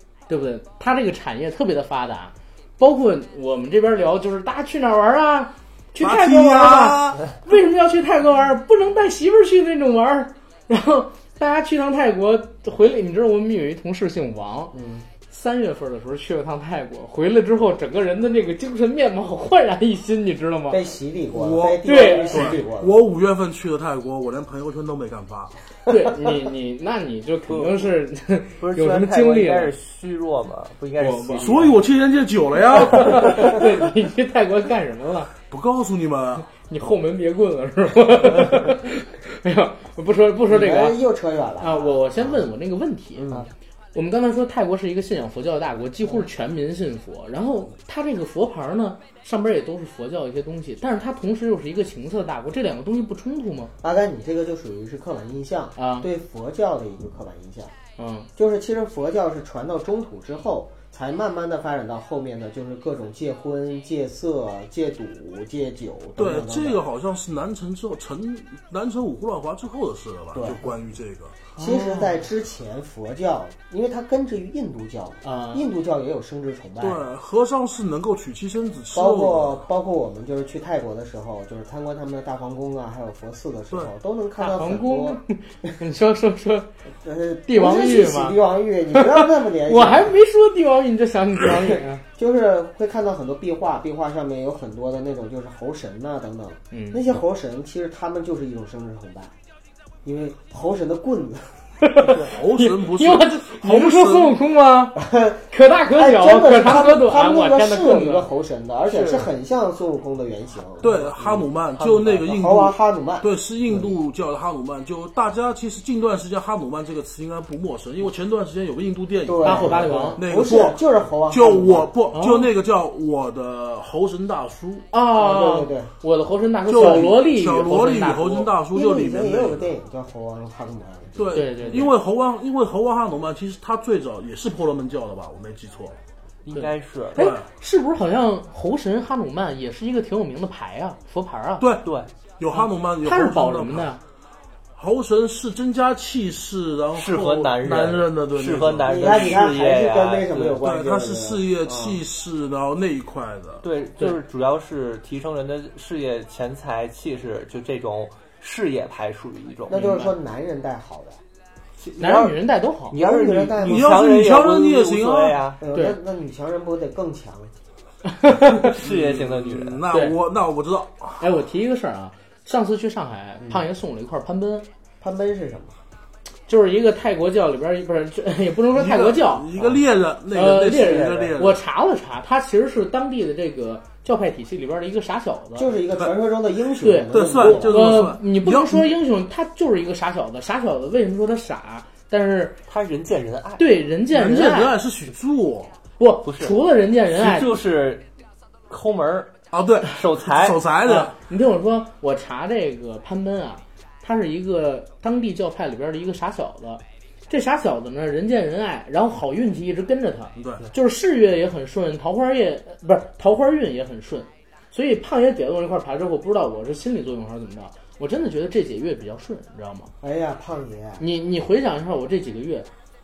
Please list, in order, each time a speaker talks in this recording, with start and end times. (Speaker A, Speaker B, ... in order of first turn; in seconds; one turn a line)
Speaker A: 0.3-14.8
Speaker B: 6.0-7.3
Speaker C: 14.7-15.1
Speaker A: 15.3-20.9
Speaker C: 20.7-23.0
Speaker B: 21.3-25.6
Speaker A: 21.8-22.6
Speaker A: 25.9-29.7
Speaker D: 27.5-27.9
Speaker D: 28.6-31.8
Speaker A: 31.0-31.6
Speaker B: 31.4-33.6
Speaker A: 32.7-35.3
Speaker B: 35.4-36.7
Speaker A: 36.5-41.0
Speaker C: 40.5-42.5
Speaker A: 41.6-43.3
Speaker C: 43.2-43.5
Speaker A: 43.9-53.7
Speaker C: 53.8-57.7
Speaker A: 55.8-56.1
Speaker A: 58.0-58.3
Speaker C: 58.4-66.8
Speaker B: 66.2-71.5
Speaker C: 70.3-70.7
Speaker A: 71.6-72.2
Speaker C: 71.6-77.0
Speaker A: 75.2-75.7
Speaker B: 76.8-79.7
Speaker C: 78.9-85.2
Speaker A: 84.4-86.7
Speaker C: 87.0-90.2
Speaker A: 87.5-88.4
Speaker A: 88.9-92.0
Speaker C: 91.5-99.3
Speaker A: 96.7-97.0
Speaker C: 100.0-101.6
Speaker A: 101.8-108.3
Speaker B: 102.2-104.4
Speaker C: 105.0-111.0
Speaker D: 108.9-109.3
Speaker B: 110.8-124.9
Speaker D: 110.8-112.3
Speaker C: 112.3-113.9
Speaker C: 119.2-121.9
Speaker A: 119.4-120.2
Speaker A: 122.1-122.5
Speaker A: 124.9-128.5
Speaker C: 125.1-125.9
Speaker B: 126.7-129.8
Speaker C: 126.8-127.1
Speaker C: 128.7-131.2
Speaker B: 131.2-136.0
Speaker A: 131.3-131.9
Speaker D: 136.4-137.3
Speaker A: 136.5-141.7
Speaker B: 137.2-137.5
Speaker B: 141.6-143.9
Speaker D: 141.8-142.1
Speaker A: 143.0-144.0
Speaker B: 144.8-149.4
Speaker D: 146.9-150.6
Speaker C: 148.8-152.0
Speaker B: 150.6-153.7
Speaker D: 153.6-160.0
Speaker C: 159.7-161.2
Speaker A: 159.8-160.1
Speaker D: 161.8-165.6
Speaker A: 162.0-163.0
Speaker C: 162.9-164.0
Speaker B: 163.6-165.4
Speaker C: 165.6-167.5
Speaker A: 168.1-168.7
Speaker D: 168.6-169.8
Speaker B: 168.8-171.3
Speaker A: 169.9-170.2
Speaker A: 171.2-174.7
Speaker C: 175.0-175.8
Speaker A: 176.5-179.6
Speaker B: 178.7-181.6
Speaker A: 180.3-185.8
Speaker C: 185.6-188.1
Speaker A: 186.8-192.6
Speaker B: 187.1-188.9
Speaker D: 192.7-193.7
Speaker A: 193.6-194.8
Speaker B: 194.1-195.8
Speaker A: 196.0-197.6
Speaker D: 196.2-198.1
Speaker D: 198.7-200.6
Speaker B: 199.5-201.2
Speaker A: 200.9-219.9
Speaker B: 210.4-210.7
Speaker C: 220.0-221.0
Speaker A: 221.0-222.7